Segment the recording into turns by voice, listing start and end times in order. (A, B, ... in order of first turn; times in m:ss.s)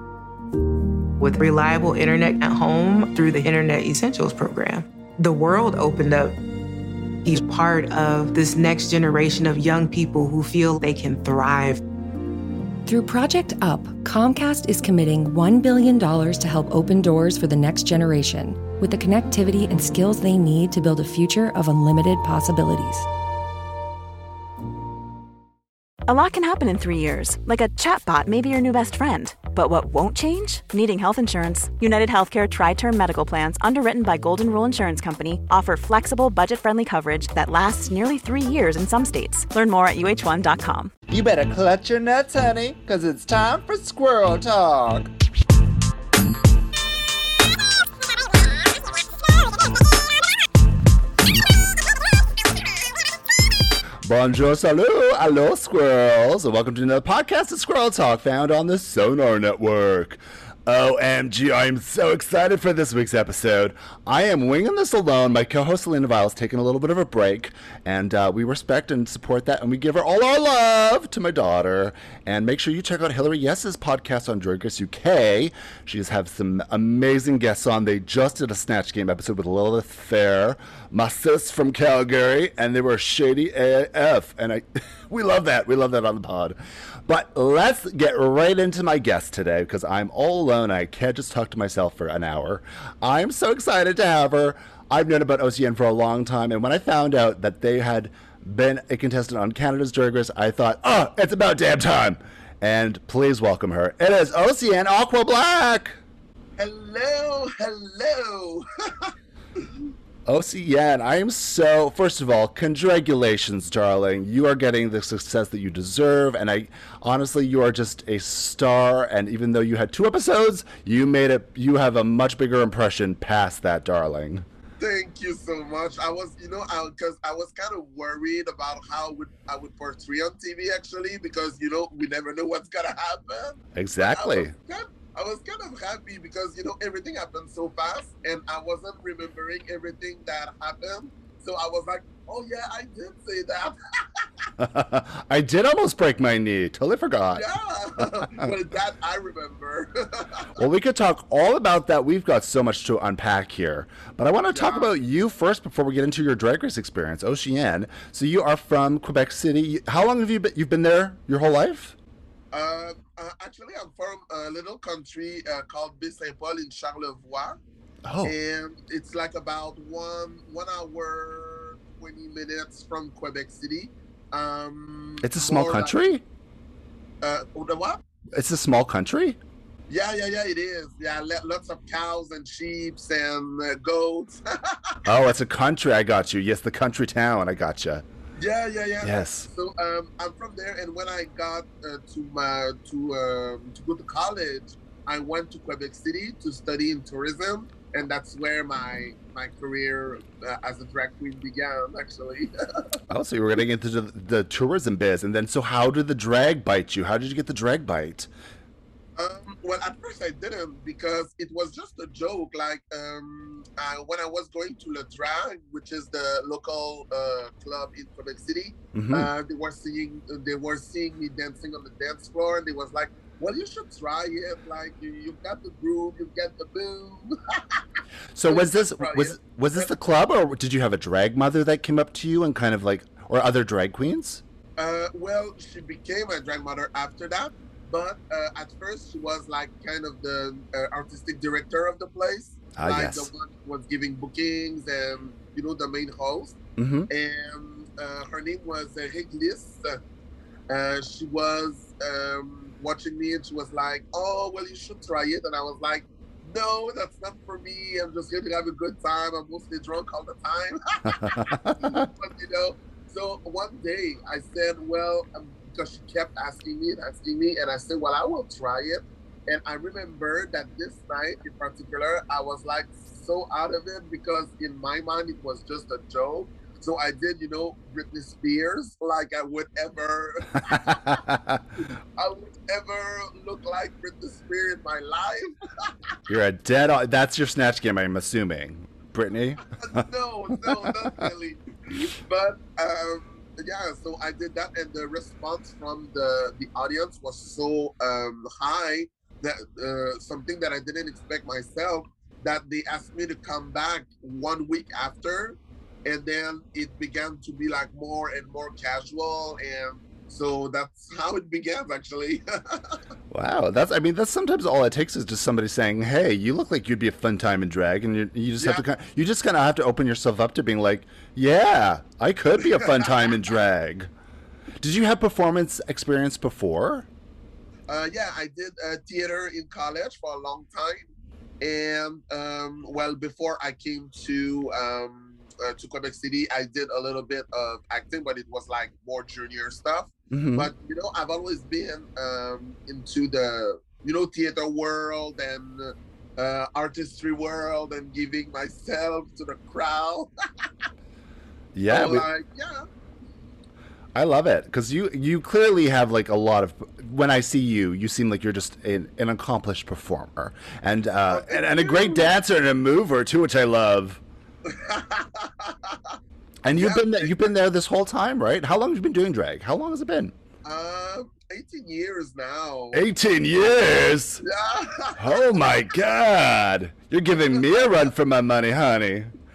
0:01.2-0:06.4 A
0:07.2-0:11.8 A
0:12.9-0:23.1 B
0:26.1-0:40.9 C
0:41.1-0:45.1 D
0:54.0-1:46.0 D
1:46.6-1:49.7 E
1:50.3-2:04.4 D
2:04.8-2:24.3 E
2:13.8-2:14.5 D
2:24.6-2:28.6 D
2:27.3-2:30.5 E
2:30.6-2:42.0 D
2:34.5-2:34.9 E
2:42.5-2:47.6 E
2:48.0-2:48.4 D
2:48.2-2:56.0 E
2:55.2-2:56.2 D
2:57.2-2:58.0 E
2:58.3-2:59.4 D
2:59.9-3:05.0 E
3:05.1-3:08.0 D
3:08.4-3:23.0 E
3:09.0-3:09.5 D
3:23.1-3:28.3 D
3:29.2-3:47.8 E
3:38.9-3:39.3 D
3:48.4-3:54.4 D
3:48.5-3:49.9 E
3:54.8-4:06.6 E
4:02.8-4:03.3 D
4:06.8-4:07.1 D
4:07.1-4:10.0 E
4:10.7-4:41.2 E
4:21.1-4:22.1 D
4:40.7-4:41.6 D
4:41.9-4:45.9 E
4:46.3-4:51.3 D
4:49.7-5:13.0 E
5:13.3-5:24.1 D
5:18.6-5:18.8 E
5:22.6-5:23.3 E
5:24.8-5:27.1 D
5:27.9-5:31.1 E
5:31.6-5:50.7 E
5:40.3-5:40.7 D
5:51.8-5:52.3 D
5:51.9-5:52.8 E
5:54.2-6:04.2 D
6:01.3-6:02.3 E
6:04.7-6:06.2 E
6:06.6-6:10.4 D
6:06.8-6:07.5 E
6:10.6-6:13.0 E
6:12.9-6:14.4 D
6:14.4-6:15.8 E
6:15.2-6:19.3 D
6:17.5-6:18.1 E